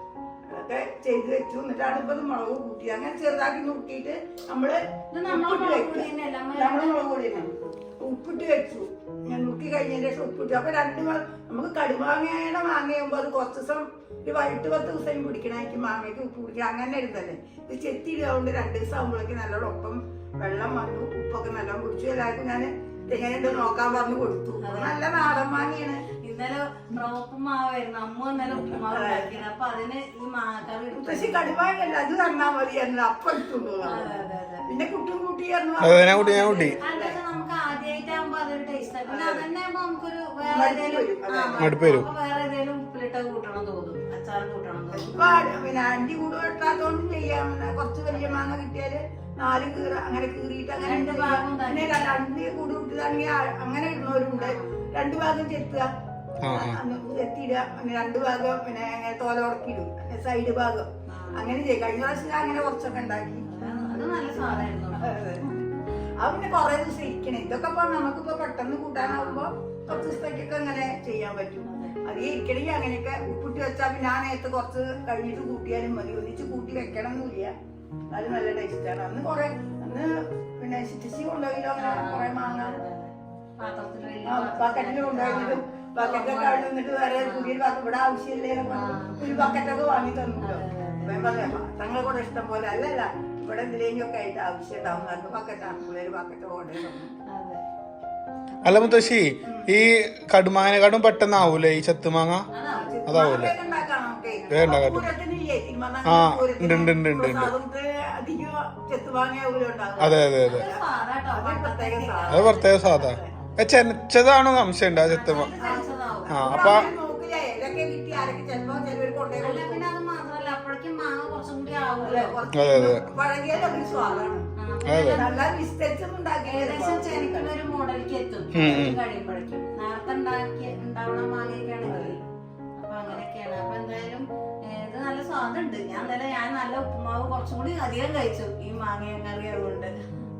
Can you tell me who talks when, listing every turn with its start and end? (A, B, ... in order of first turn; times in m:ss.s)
0:00.5-0:07.5 A
0:05.1-0:07.4 B
0:08.0-0:26.0 A
0:24.6-0:25.0 B
0:26.2-0:31.4 B
0:28.8-0:29.3 A
0:30.9-0:37.2 A
0:33.8-0:34.6 B
0:35.8-0:36.8 C
0:36.8-0:45.1 B
0:39.0-0:39.4 A
0:40.4-0:41.8 A
0:41.6-0:42.1 C
0:44.9-0:55.9 A
0:48.1-0:48.4 B
0:50.8-0:52.1 B
0:54.4-0:54.6 B
0:56.4-0:56.8 C
0:56.4-1:05.6 A
1:01.1-1:01.5 B
1:03.4-1:05.1 B
1:06.2-1:17.5 A
1:09.0-1:10.2 B
1:11.6-1:12.0 B
1:18.1-1:22.8 A
1:21.8-1:27.5 B
1:24.3-1:37.1 A
1:28.7-1:29.6 B
1:30.4-1:31.5 B
1:37.2-1:37.6 B
1:38.5-1:39.1 B
1:38.6-1:42.4 C
1:39.4-1:39.7 A
1:42.5-1:42.9 B
1:42.7-1:50.8 A
1:43.0-1:43.5 C
1:44.5-1:45.1 C
1:46.0-1:47.5 C
1:50.0-1:50.7 C
1:50.4-1:53.6 B
1:51.3-1:53.3 A
1:52.3-1:55.5 C
1:55.0-1:56.8 B
1:55.6-1:59.9 A
1:56.3-1:56.9 C
1:59.4-2:02.4 B
2:02.0-2:04.4 A
2:02.5-2:03.0 C
2:03.5-2:05.5 B
2:04.9-2:05.2 C
2:05.1-2:07.5 A
2:06.4-2:12.2 B
2:08.5-2:09.0 C
2:08.6-2:09.0 A
2:11.8-2:12.2 A
2:12.8-2:19.9 B